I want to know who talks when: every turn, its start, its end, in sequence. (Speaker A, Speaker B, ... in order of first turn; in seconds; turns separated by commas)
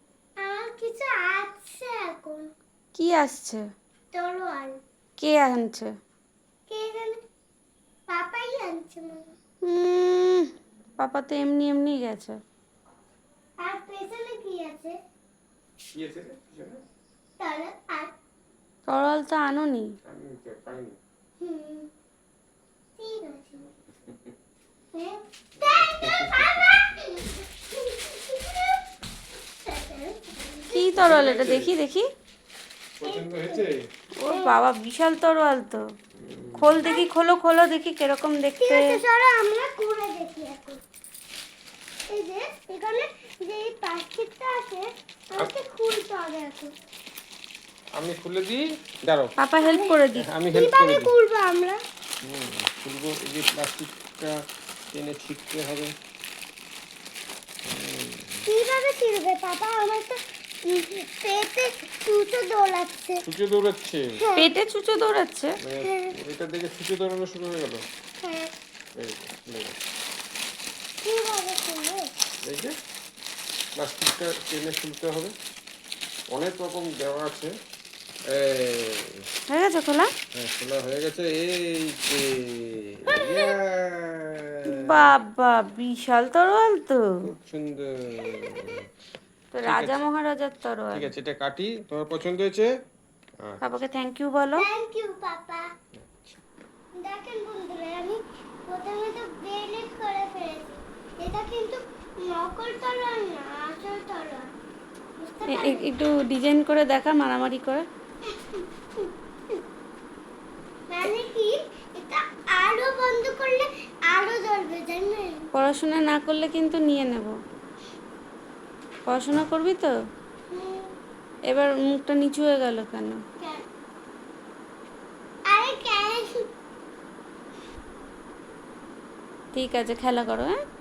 Speaker A: 0.4-2.5, Speaker B: 3.0-3.6, Speaker A: 4.1-4.8, Speaker B: 5.2-5.9, Speaker A: 6.7-7.2, Speaker A: 8.1-9.3, Speaker B: 9.6-12.4, Speaker A: 13.6-14.9, Speaker C: 15.9-16.8, Speaker A: 17.4-18.1, Speaker B: 18.9-19.9, Speaker C: 20.1-21.0, Speaker A: 21.4-21.9, Speaker A: 23.0-23.7, Speaker A: 24.9-28.8, Speaker C: 25.6-26.7, Speaker A: 29.7-31.0, Speaker B: 30.7-32.1, Speaker C: 31.0-31.7, Speaker C: 33.0-33.8, Speaker A: 33.0-33.6, Speaker B: 34.2-35.8, Speaker A: 34.3-34.5, Speaker C: 36.2-36.9, Speaker B: 36.6-38.9, Speaker A: 38.6-40.8, Speaker A: 42.1-46.7, Speaker C: 48.0-49.3, Speaker B: 49.4-50.3, Speaker A: 49.6-50.0, Speaker C: 50.2-51.1, Speaker A: 50.5-51.8, Speaker C: 52.2-54.4, Speaker C: 54.9-55.9, Speaker C: 57.7-58.5, Speaker A: 58.5-63.2, Speaker C: 63.2-64.1, Speaker A: 64.2-64.5, Speaker B: 64.4-65.5, Speaker C: 65.6-67.8, Speaker A: 65.8-66.1, Speaker A: 68.2-68.5, Speaker C: 69.0-69.8, Speaker A: 71.0-72.1, Speaker C: 72.4-72.7, Speaker C: 73.8-75.3, Speaker C: 76.3-77.5, Speaker C: 78.3-79.2, Speaker B: 79.5-80.1, Speaker C: 80.3-85.1, Speaker A: 83.1-83.4, Speaker B: 84.7-87.0, Speaker C: 87.2-88.8, Speaker B: 89.5-91.1, Speaker C: 89.7-90.0, Speaker C: 90.9-92.7, Speaker B: 93.6-94.7, Speaker A: 94.6-95.7, Speaker C: 96.0-96.3, Speaker A: 97.0-104.5, Speaker A: 105.2-105.9, Speaker B: 105.5-107.8, Speaker A: 108.3-109.1, Speaker A: 110.9-115.4, Speaker B: 115.5-117.3, Speaker B: 119.1-119.9, Speaker A: 120.5-120.9, Speaker B: 121.5-123.2, Speaker A: 123.4-123.7, Speaker A: 125.5-126.4, Speaker B: 129.5-130.6